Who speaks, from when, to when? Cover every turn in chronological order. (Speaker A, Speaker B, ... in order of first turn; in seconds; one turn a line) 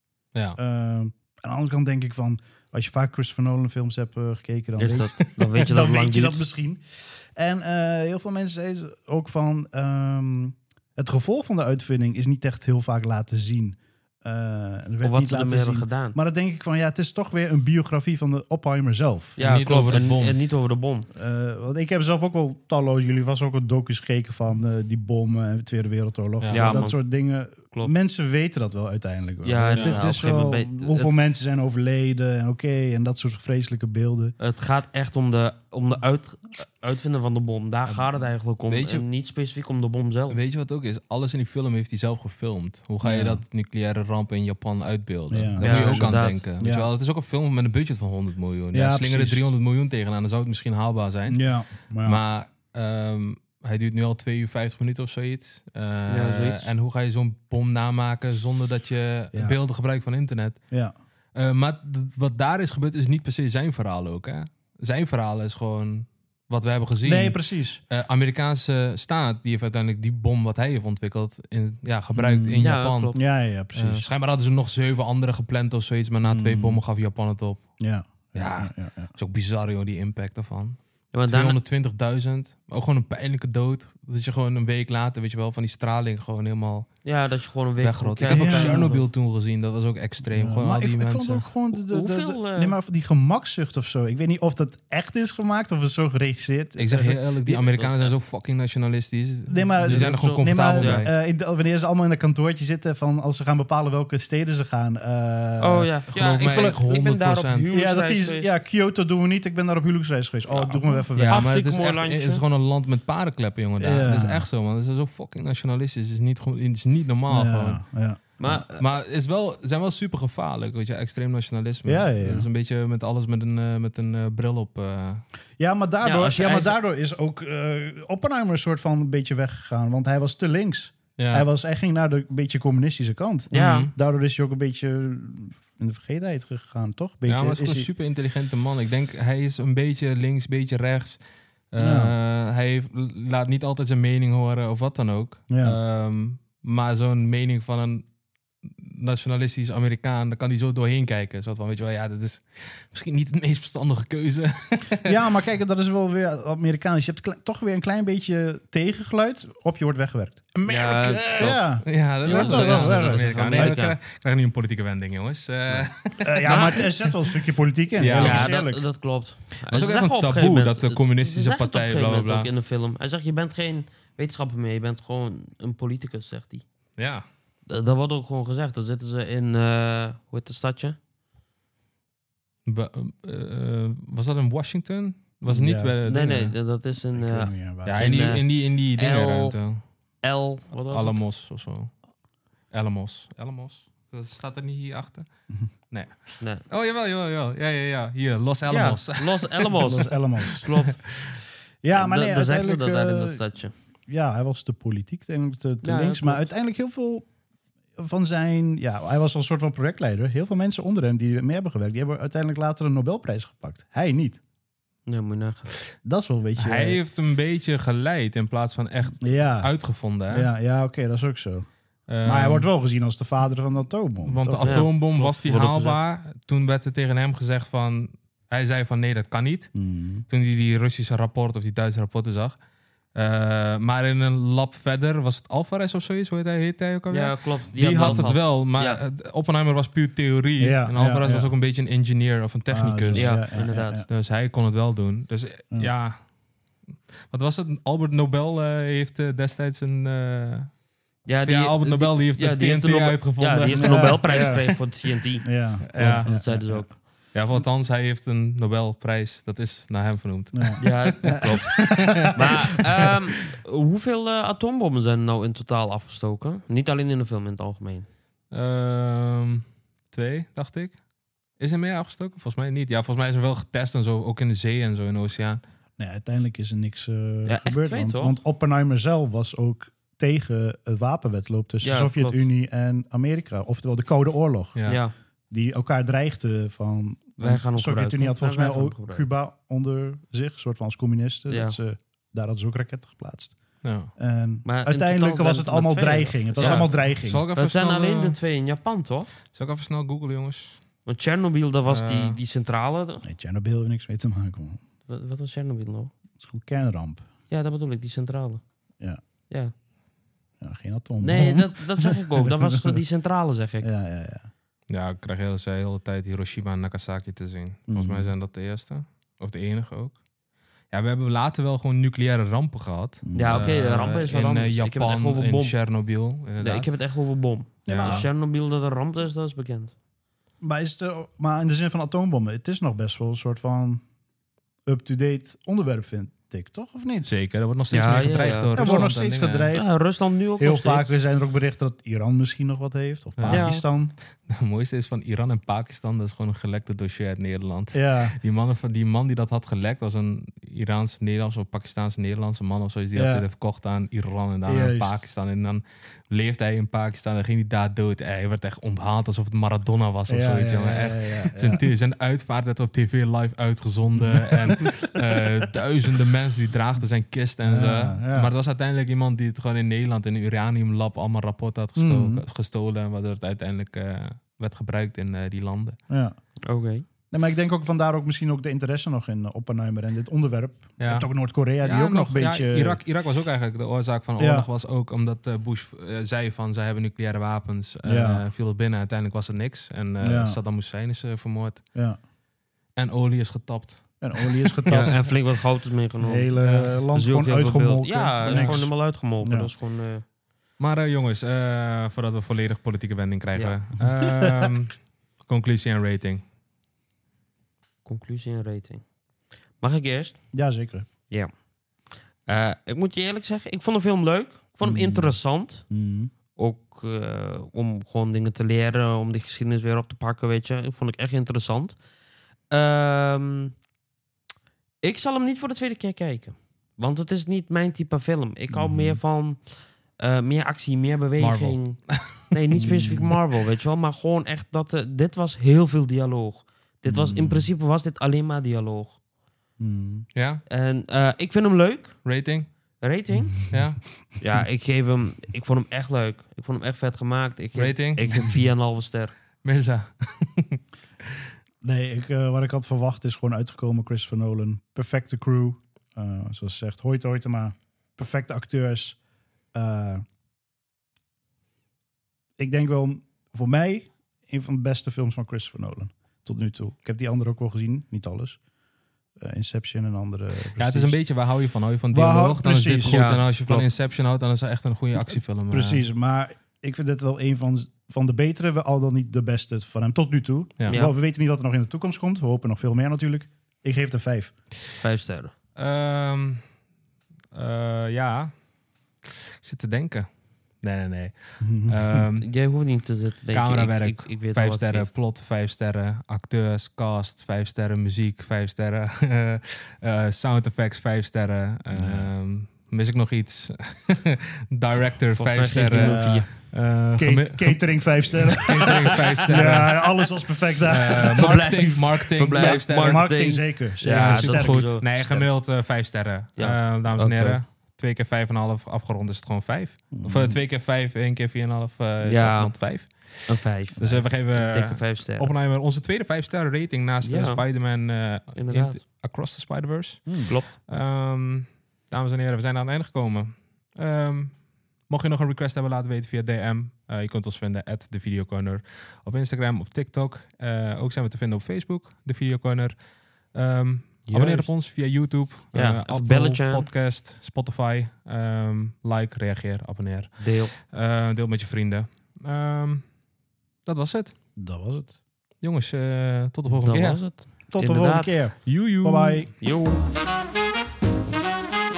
Speaker A: 0.6-19.4
Speaker B: 4.8-6.4
Speaker B: 15.0-16.2
Speaker B: 19.4-21.1
Speaker C: 19.4-20.4
Speaker A: 21.1-34.4
Speaker C: 26.4-26.8
Speaker B: 26.5-27.0
Speaker B: 29.4-31.2
Speaker C: 29.8-30.1
Speaker B: 34.4-40.4
Speaker C: 38.7-39.0
Speaker C: 40.3-51.4
Speaker A: 43.0-43.4
Speaker A: 45.3-46.9
Speaker B: 45.6-46.4
Speaker A: 48.7-49.4
Speaker A: 51.3-52.2
Speaker C: 52.0-60.6
Speaker B: 56.1-56.7
Speaker C: 61.4-67.4
Speaker A: 67.0-67.8
Speaker C: 67.9-77.8
Speaker A: 72.1-74.0
Speaker B: 72.6-73.2
Speaker A: 76.2-76.8
Speaker A: 77.8-79.1
Speaker C: 78.3-87.1
Speaker B: 81.1-81.6
Speaker B: 87.0-89.0
Speaker C: 87.8-91.5
Speaker A: 88.3-89.0
Speaker A: 90.3-97.2
Speaker B: 91.8-92.8
Speaker C: 96.8-101.1
Speaker B: 97.5-98.2
Speaker A: 99.5-105.9
Speaker B: 99.9-101.1
Speaker B: 105.6-108.5
Speaker C: 106.1-107.7
Speaker A: 107.7-111.5
Speaker B: 110.5-112.4
Speaker C: 111.2-117.8
Speaker A: 113.8-114.5
Speaker A: 117.3-118.6
Speaker B: 118.4-118.8
Speaker C: 118.8-125.2
Speaker A: 121.8-122.5
Speaker A: 125.6-137.9
Speaker B: 126.0-126.8
Speaker C: 131.2-131.5
Speaker B: 133.5-133.9
Speaker C: 133.5-133.9
Speaker C: 137.3-141.2
Speaker C: 141.7-148.1
Speaker A: 141.8-142.1
Speaker A: 145.5-145.8
Speaker C: 148.6-155.2
Speaker A: 155.1-160.5
Speaker C: 160.6-167.1
Speaker B: 160.7-161.6
Speaker A: 161.4-163.8
Speaker B: 162.3-164.0
Speaker A: 166.2-168.8
Speaker B: 166.4-166.9
Speaker C: 168.0-168.5
Speaker B: 168.1-176.6
Speaker C: 169.7-172.5
Speaker C: 177.0-177.2
Speaker B: 177.7-181.0
Speaker C: 182.7-186.6
Speaker A: 185.5-186.0
Speaker B: 186.0-189.6
Speaker A: 187.1-188.4
Speaker C: 187.8-189.8
Speaker B: 190.2-191.2
Speaker C: 190.9-191.9
Speaker C: 192.7-195.3
Speaker C: 195.9-201.2
Speaker B: 198.7-201.0
Speaker A: 199.7-200.7
Speaker A: 201.8-203.4
Speaker B: 201.9-203.7
Speaker A: 204.1-207.3
Speaker B: 205.8-206.5
Speaker A: 208.0-214.4
Speaker B: 215.1-215.8
Speaker A: 216.0-217.0
Speaker C: 216.6-220.5
Speaker A: 219.2-219.7
Speaker A: 220.3-221.7
Speaker C: 222.1-222.7
Speaker A: 222.2-224.9
Speaker C: 224.2-229.7
Speaker B: 224.6-226.0
Speaker A: 229.8-230.2
Speaker C: 230.3-232.6
Speaker C: 233.2-246.3
Speaker B: 237.1-239.0
Speaker A: 238.0-238.3
Speaker A: 240.6-241.5
Speaker A: 242.7-244.1
Speaker B: 243.1-244.0
Speaker C: 247.3-250.8
Speaker B: 251.3-257.0
Speaker C: 251.5-254.6
Speaker A: 253.7-254.8
Speaker A: 255.4-256.9
Speaker C: 255.9-262.5
Speaker A: 260.5-262.5
Speaker B: 260.8-268.1
Speaker C: 268.5-271.0
Speaker C: 271.6-275.6
Speaker A: 276.0-284.8
Speaker B: 277.5-278.4
Speaker B: 281.8-282.4
Speaker C: 284.8-285.0
Speaker B: 284.9-285.1
Speaker A: 285.5-293.6
Speaker B: 287.4-289.3
Speaker B: 291.5-291.8
Speaker C: 293.8-294.1
Speaker A: 294.2-297.4
Speaker B: 294.6-296.9
Speaker C: 296.6-298.4
Speaker B: 297.6-299.3
Speaker C: 299.5-300.8
Speaker B: 301.1-303.2
Speaker C: 301.9-302.4
Speaker A: 303.2-304.8
Speaker B: 305.1-306.1
Speaker A: 306.4-307.2
Speaker B: 307.5-308.6
Speaker A: 310.6-313.0
Speaker B: 311.2-313.9
Speaker A: 313.8-314.5
Speaker C: 314.9-320.2
Speaker A: 317.9-318.3
Speaker C: 320.9-326.9
Speaker A: 323.2-323.8
Speaker B: 323.3-325.8
Speaker B: 326.6-329.9
Speaker A: 327.9-328.3
Speaker C: 327.9-328.3
Speaker A: 330.6-334.0
Speaker A: 334.9-337.4
Speaker C: 337.3-339.8
Speaker B: 337.9-339.1
Speaker A: 338.8-340.0
Speaker B: 339.7-341.1
Speaker A: 340.6-344.1
Speaker C: 343.4-343.7
Speaker B: 343.5-343.8
Speaker C: 344.5-376.0
Speaker A: 347.9-348.4
Speaker A: 353.1-353.4
Speaker A: 354.7-355.2
Speaker A: 360.3-361.9
Speaker A: 364.2-365.1
Speaker A: 367.6-368.5
Speaker A: 372.0-372.4
Speaker A: 376.1-376.4
Speaker B: 376.7-377.1
Speaker A: 377.3-383.0
Speaker C: 381.0-391.8
Speaker A: 384.4-384.7
Speaker A: 388.0-388.4
Speaker A: 390.2-390.6
Speaker C: 393.0-395.3
Speaker A: 394.2-395.3
Speaker B: 394.9-400.2
Speaker A: 396.2-399.7
Speaker C: 396.6-396.9
Speaker C: 398.4-398.9
Speaker C: 400.8-406.4
Speaker A: 404.4-404.7
Speaker B: 408.1-409.0
Speaker B: 409.8-410.4
Speaker A: 410.5-411.1
Speaker B: 412.5-415.9
Speaker A: 414.8-415.4
Speaker A: 415.9-416.3
Speaker B: 416.6-422.0
Speaker B: 422.7-423.8
Speaker B: 425.0-429.6
Speaker A: 428.7-429.2
Speaker B: 430.2-432.0
Speaker C: 431.4-432.4
Speaker B: 432.5-439.2
Speaker A: 432.8-433.4
Speaker A: 437.1-437.7
Speaker A: 439.8-440.3
Speaker C: 440.4-440.6
Speaker B: 440.7-442.2
Speaker C: 442.2-442.7
Speaker B: 443.0-443.8
Speaker A: 443.3-443.8
Speaker C: 443.7-444.1
Speaker B: 444.4-449.4
Speaker C: 447.8-448.5
Speaker A: 448.3-448.6
Speaker C: 449.6-450.8
Speaker A: 451.8-459.2
Speaker A: 459.7-460.2
Speaker A: 462.6-468.6
Speaker A: 469.4-471.2
Speaker C: 470.8-476.1
Speaker A: 472.1-473.3
Speaker B: 473.0-473.9
Speaker A: 475.3-484.5
Speaker B: 480.9-481.1
Speaker B: 485.0-485.5
Speaker C: 485.8-486.6
Speaker C: 487.5-488.5
Speaker C: 489.3-490.3
Speaker C: 490.8-492.5
Speaker A: 491.6-492.2
Speaker B: 492.4-495.1
Speaker C: 493.5-510.1
Speaker A: 501.9-502.3
Speaker B: 505.3-506.5
Speaker A: 505.9-511.5
Speaker C: 510.9-543.0
Speaker B: 511.1-515.5
Speaker A: 512.5-515.2
Speaker B: 516.6-517.6
Speaker A: 520.1-520.6
Speaker B: 522.2-525.5
Speaker B: 527.2-527.6
Speaker B: 528.5-529.0
Speaker B: 530.5-530.8
Speaker C: 543.5-553.0
Speaker B: 544.3-544.7
Speaker B: 545.7-546.9
Speaker B: 550.4-550.7
Speaker C: 553.9-554.3
Speaker A: 554.6-555.2
Speaker C: 555.6-557.2
Speaker B: 556.7-558.4
Speaker A: 557.7-559.5
Speaker C: 558.7-559.5
Speaker B: 559.5-560.0